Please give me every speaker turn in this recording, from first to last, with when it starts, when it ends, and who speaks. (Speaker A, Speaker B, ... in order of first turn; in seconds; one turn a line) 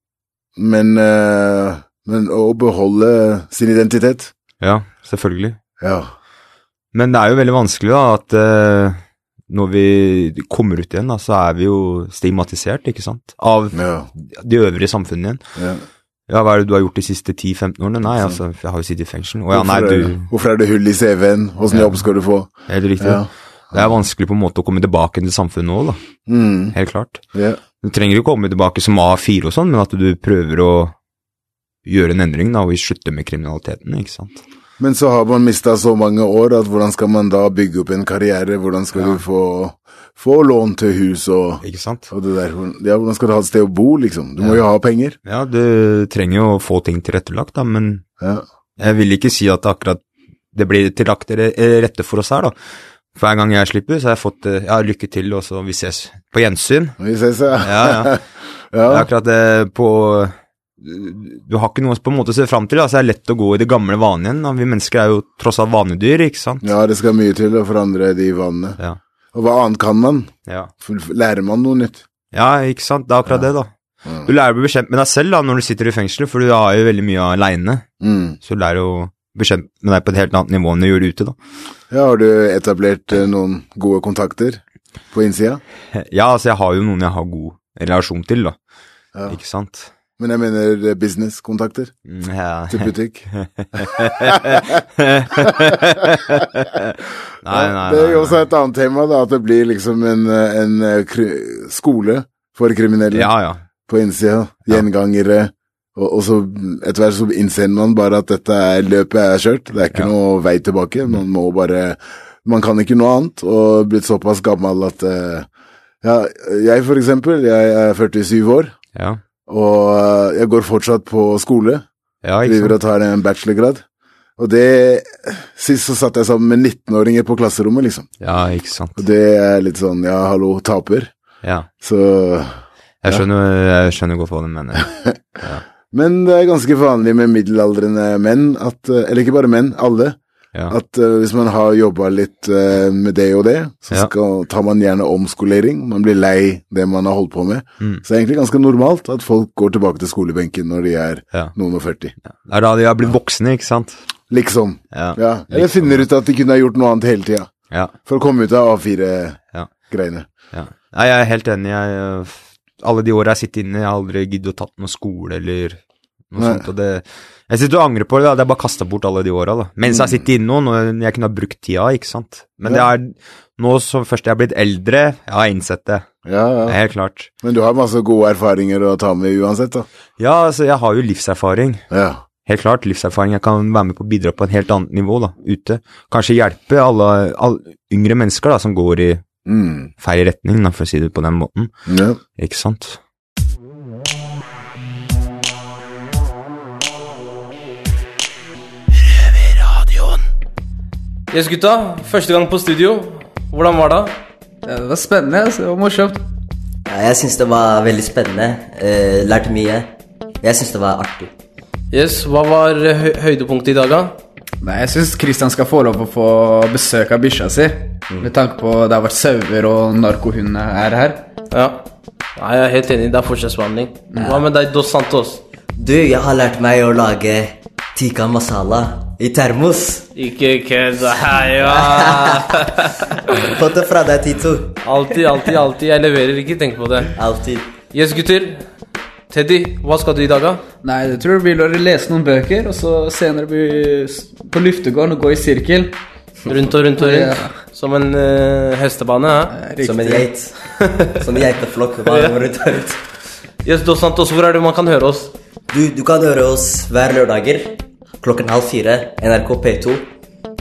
Speaker A: 0.6-4.3
Speaker B: 4.6-5.6
Speaker A: 5.8-6.1
Speaker B: 6.9-9.0
Speaker B: 9.5-15.4
Speaker A: 13.7-14.1
Speaker A: 15.6-15.8
Speaker B: 16.3-20.3
Speaker A: 18.1-18.4
Speaker A: 19.5-23.9
Speaker B: 21.7-22.1
Speaker B: 22.7-23.2
Speaker B: 23.7-26.0
Speaker A: 26.3-26.8
Speaker B: 26.7-27.2
Speaker A: 27.3-27.6
Speaker B: 27.8-30.9
Speaker B: 31.9-34.4
Speaker A: 34.8-45.2
Speaker B: 39.0-39.2
Speaker B: 41.6-42.1
Speaker B: 45.2-48.0
Speaker B: 48.8-50.0
Speaker B: 50.5-52.5
Speaker B: 53.1-57.0
Speaker A: 57.0-59.1
Speaker B: 57.6-58.1
Speaker B: 58.9-66.6
Speaker A: 66.6-68.8
Speaker A: 69.3-70.3
Speaker A: 70.8-72.0
Speaker B: 72.3-73.7
Speaker B: 74.3-77.8
Speaker A: 78.0-78.4
Speaker B: 78.4-81.4
Speaker A: 81.9-84.6
Speaker A: 85.1-85.6
Speaker B: 86.0-88.6
Speaker B: 89.3-89.9
Speaker A: 90.2-91.9
Speaker B: 92.1-98.5
Speaker A: 92.7-93.3
Speaker A: 97.5-103.3
Speaker B: 103.1-103.6
Speaker A: 103.8-115.5
Speaker A: 116.0-118.7
Speaker B: 119.0-119.2
Speaker A: 119.5-121.8
Speaker B: 122.2-122.8
Speaker A: 122.5-123.8
Speaker A: 124.4-128.1
Speaker B: 128.2-129.0
Speaker A: 129.0-131.1
Speaker B: 131.4-131.7
Speaker A: 131.8-133.2
Speaker B: 133.0-135.6
Speaker A: 134.8-140.2
Speaker A: 140.7-152.1
Speaker B: 152.3-154.0
Speaker A: 154.3-160.3
Speaker B: 154.9-156.1
Speaker B: 160.5-165.8
Speaker B: 166.3-176.1
Speaker A: 166.3-166.7
Speaker A: 169.9-170.2
Speaker A: 176.2-176.8
Speaker B: 176.7-177.3
Speaker A: 177.4-179.9
Speaker B: 180.2-181.8
Speaker A: 181.9-182.2
Speaker B: 182.4-189.2
Speaker A: 189.5-189.9
Speaker B: 190.0-191.7
Speaker A: 191.9-192.2
Speaker B: 192.4-193.0
Speaker C: 201.3-204.2
Speaker D: 204.7-206.2
Speaker E: 206.9-209.9
Speaker E: 210.4-211.3
Speaker C: 211.9-214.2
Speaker D: 214.6-221.3
Speaker C: 221.5-221.8
Speaker C: 222.4-225.4
Speaker D: 224.1-224.4
Speaker E: 225.8-230.1
Speaker C: 230.2-232.9
Speaker E: 231.5-232.5
Speaker E: 233.5-234.8
Speaker C: 234.8-237.1
Speaker E: 237.2-237.8
Speaker C: 237.9-238.6
Speaker C: 239.3-240.6
Speaker D: 240.8-246.0
Speaker C: 246.5-249.5
Speaker D: 247.0-247.6
Speaker D: 249.5-250.3
Speaker E: 249.8-253.0
Speaker C: 252.1-252.4
Speaker C: 253.6-255.3
Speaker E: 255.7-260.1